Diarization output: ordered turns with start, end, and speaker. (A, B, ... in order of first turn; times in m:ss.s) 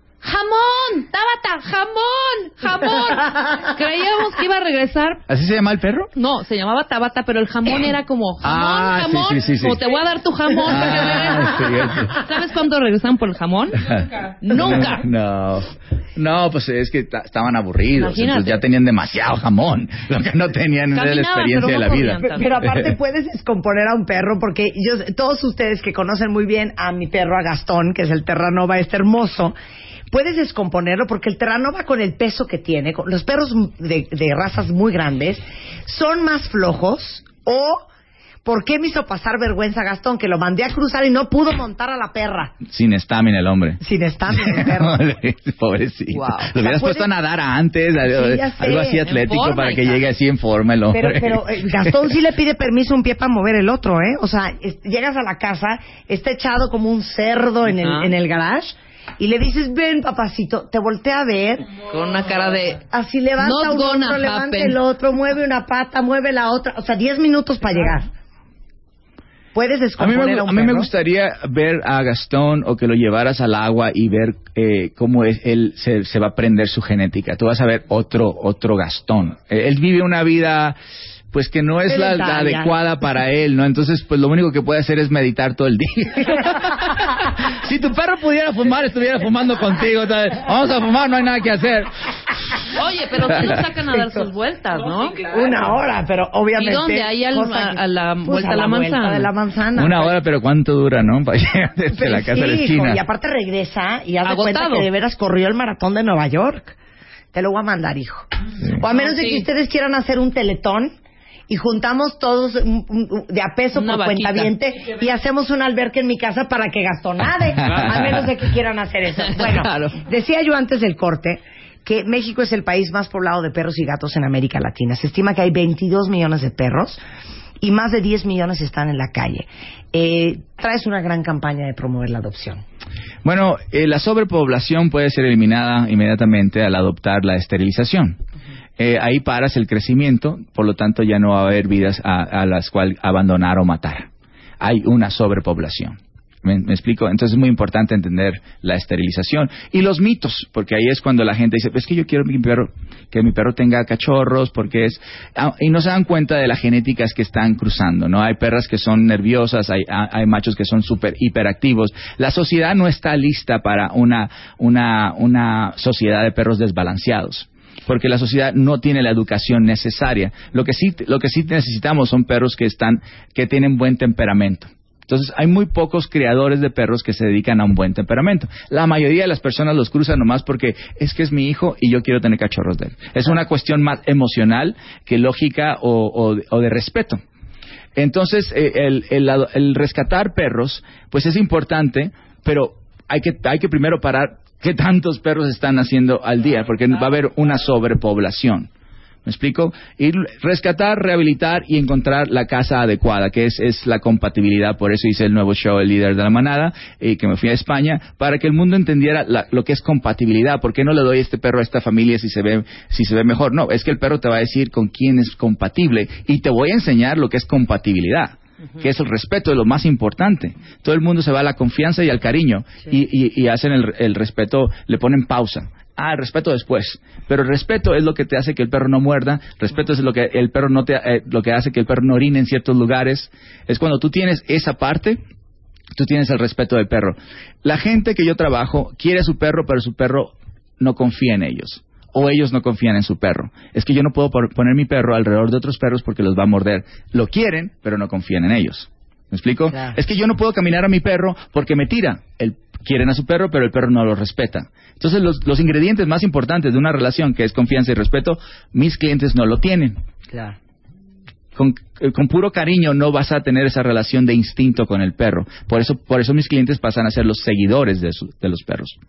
0:00.2-0:05.2 A
0:05.3-0:06.1 B
0:06.2-0:13.9 A
0:08.4-0:09.8 B
0:10.6-0:12.2 B
0:13.9-0:22.2 B
0:14.4-0:15.0 A
0:18.0-0:18.6 A
0:20.9-0:22.6 A
0:22.2-0:29.5 C
0:30.1-0:37.8 C
0:38.4-0:42.5 C
0:42.6-0:52.1 B
0:43.8-0:45.0 C
0:46.1-0:46.5 A
0:46.6-0:47.1 C
0:48.0-0:49.0 C
0:49.0-0:50.0 A
0:50.9-1:01.8 C
0:57.7-0:58.1 A
1:01.9-1:02.8 A
1:02.9-1:08.1 C
1:03.4-1:04.8 A
1:09.5-1:10.9 C
1:10.0-1:20.8 B
1:21.3-1:31.9 B
1:21.9-1:22.7 C
1:32.7-1:35.2 A
1:33.3-1:33.6 B
1:35.2-1:40.2 C
1:36.6-1:39.3 A
1:39.8-1:43.0 B
1:41.9-1:46.7 C
1:44.2-1:44.9 A
1:47.3-1:48.3 C
1:48.8-1:50.9 C
1:48.9-1:49.5 A
1:51.5-2:07.0 C
1:53.7-1:54.5 A
1:57.6-1:57.9 A
1:59.3-2:00.0 A
2:07.6-2:12.6 C
2:13.2-2:18.2 B
2:18.8-3:07.2 B
3:08.0-3:18.7 B
3:19.2-3:55.2 B
3:56.0-4:20.0 B
4:09.7-4:10.0 C
4:20.3-4:20.6 C
4:21.5-4:29.0 B